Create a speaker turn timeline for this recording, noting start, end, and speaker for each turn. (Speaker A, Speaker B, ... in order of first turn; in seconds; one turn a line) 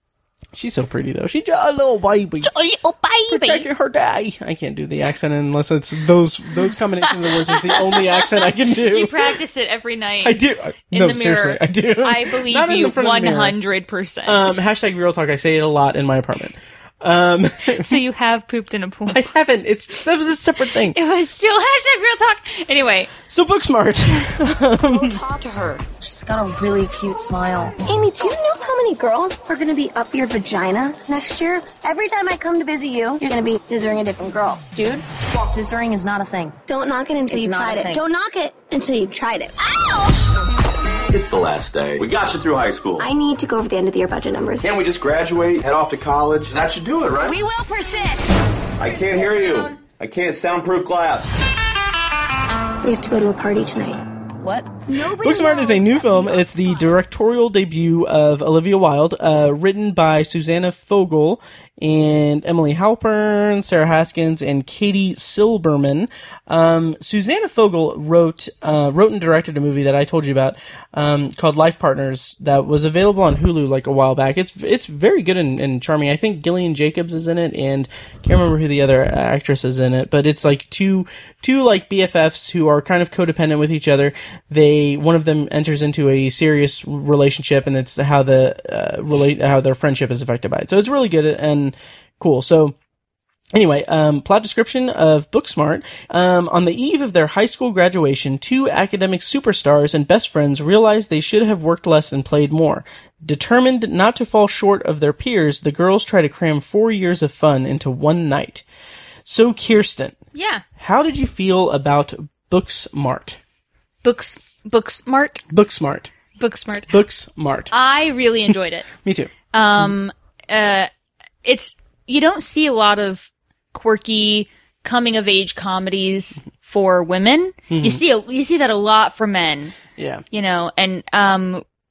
Speaker A: 0.6-2.5
Speaker B: 2.4-3.7
Speaker A: 3.3-9.4
Speaker B: 7.2-10.4
Speaker A: 10.2-13.6
Speaker B: 10.9-14.4
Speaker A: 14.3-18.0
Speaker B: 17.8-19.3
Speaker A: 19.1-21.0
Speaker B: 20.9-23.1
Speaker A: 23.3-25.2
Speaker C: 24.8-27.8
Speaker D: 27.8-34.5
Speaker C: 34.5-36.6
Speaker D: 36.7-39.6
Speaker C: 37.3-38.0
Speaker E: 41.1-43.1
Speaker D: 43.0-44.7
Speaker E: 44.6-47.4
Speaker C: 47.2-48.4
Speaker E: 48.8-51.3
Speaker C: 48.9-49.7
Speaker D: 52.8-54.0
Speaker C: 54.4-56.3
Speaker A: 55.0-92.8
Speaker A: 93.5-108.6
Speaker A: 109.3-110.2
Speaker B: 110.3-110.6
Speaker A: 110.8-113.4
Speaker B: 114.0-115.4
Speaker A: 115.5-116.1
Speaker B: 116.4-117.0
Speaker A: 116.9-117.7
Speaker B: 117.7-118.9
Speaker A: 119.0-119.9
Speaker B: 119.5-120.9
Speaker B: 121.5-129.8
Speaker A: 127.7-128.0
Speaker A: 130.0-130.2
Speaker B: 130.3-131.6